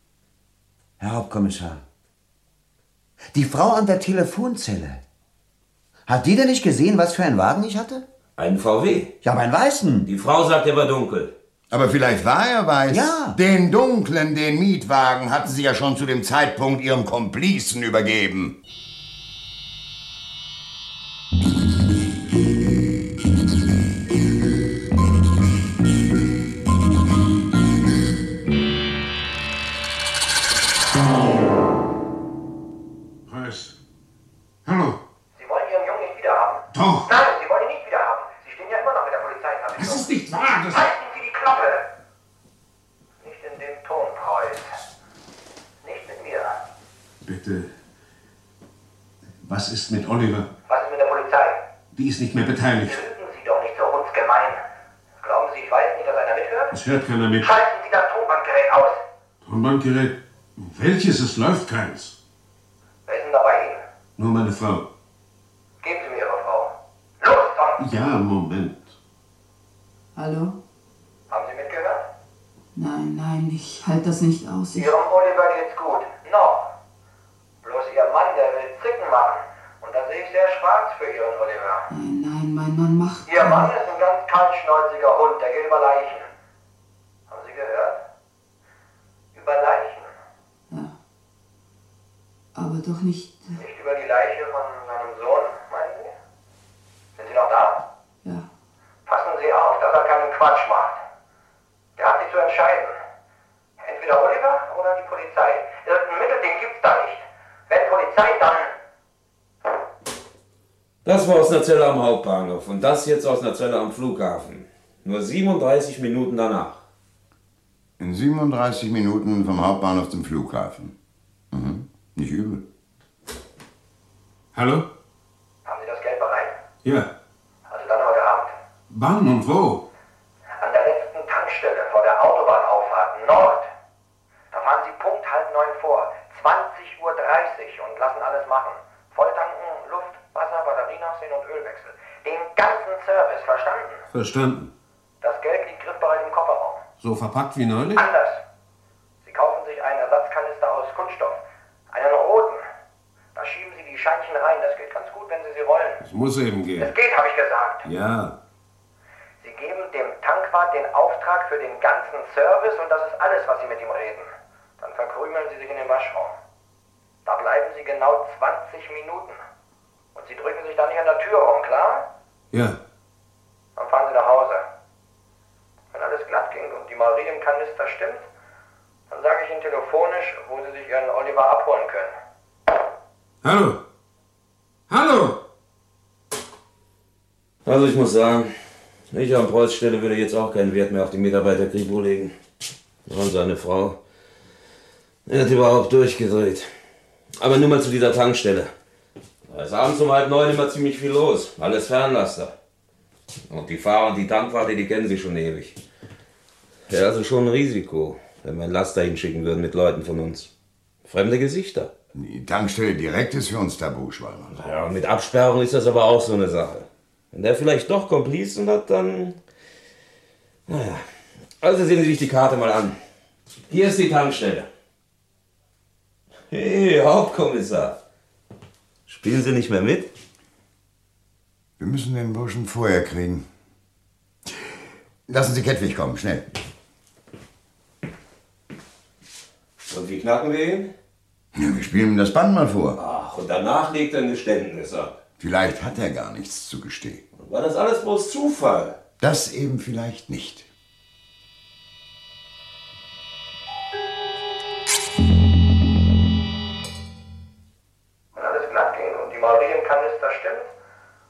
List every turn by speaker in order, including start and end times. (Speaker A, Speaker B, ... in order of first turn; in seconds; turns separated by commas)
Speaker A: 1.0-1.8, Speaker A: 3.3-5.0, Speaker A: 6.1-8.0, Speaker B: 8.4-9.1, Speaker A: 9.2-10.1, Speaker B: 10.0-11.3, Speaker C: 11.7-18.6, Speaker A: 12.9-13.4, Speaker D: 33.3-33.7, Speaker D: 34.6-35.0, Speaker E: 35.3-41.8, Speaker D: 36.7-37.1, Speaker D: 39.7-40.9, Speaker E: 43.2-44.7, Speaker E: 45.8-46.6, Speaker D: 47.2-47.7, Speaker D: 49.4-50.5, Speaker E: 50.7-51.6, Speaker D: 51.9-53.0, Speaker E: 52.8-54.6, Speaker E: 55.2-56.7, Speaker D: 56.7-57.5, Speaker E: 57.4-59.0, Speaker D: 59.4-62.1, Speaker E: 63.1-63.8, Speaker D: 64.2-64.8, Speaker E: 65.8-67.8, Speaker D: 67.8-68.9, Speaker F: 70.2-70.6, Speaker E: 71.3-72.0, Speaker F: 72.8-74.9, Speaker E: 74.7-76.7, Speaker E: 77.6-81.9, Speaker F: 81.9-83.7, Speaker E: 83.2-86.3, Speaker E: 87.3-88.0, Speaker E: 89.3-90.1, Speaker F: 92.5-93.6, Speaker E: 93.6-96.1, Speaker E: 97.2-97.8, Speaker E: 99.0-101.0, Speaker E: 102.0-102.9, Speaker E: 103.8-108.7, Speaker B: 111.0-116.8, Speaker C: 118.0-120.9, Speaker C: 121.5-122.6, Speaker D: 124.5-124.8, Speaker E: 125.7-126.5, Speaker D: 126.8-127.1, Speaker E: 127.7-128.5, Speaker D: 128.9-129.8, Speaker E: 130.6-133.7, Speaker E: 134.5-144.0, Speaker D: 144.1-144.7, Speaker E: 145.2-146.8, Speaker D: 147.0-148.0, Speaker E: 147.9-148.4, Speaker E: 149.2-151.4, Speaker E: 151.9-152.6, Speaker E: 153.3-156.0, Speaker D: 156.0-156.9, Speaker E: 156.8-157.8, Speaker D: 157.8-158.3, Speaker E: 159.4-166.3, Speaker E: 167.2-169.4, Speaker E: 170.1-172.0, Speaker D: 172.5-172.8, Speaker E: 173.8-174.6, Speaker E: 175.9-178.2, Speaker E: 179.1-182.1, Speaker D: 183.4-183.8, Speaker D: 184.9-185.4, Speaker B: 187.7-188.5, Speaker B: 189.1-192.3, Speaker B: 193.1-194.0, Speaker B: 195.3-196.7, Speaker B: 197.4-198.7, Speaker B: 199.5-202.5, Speaker B: 203.5-205.8, Speaker B: 206.9-210.5, Speaker B: 211.0-211.9, Speaker C: 212.1-214.5, Speaker B: 214.5-219.4, Speaker B: 220.7-221.0, Speaker B: 221.6-222.9, Speaker B: 223.7-224.7, Speaker B: 226.5-228.0, Speaker B: 229.1-230.1, Speaker C: 231.8-233.4, Speaker C: 235.3-236.4, Speaker B: 239.8-240.9, Speaker C: 241.5-243.0, Speaker B: 243.0-245.2, Speaker C: 245.4-247.2, Speaker B: 247.4-249.0, Speaker C: 249.2-250.7, Speaker E: 258.3-260.7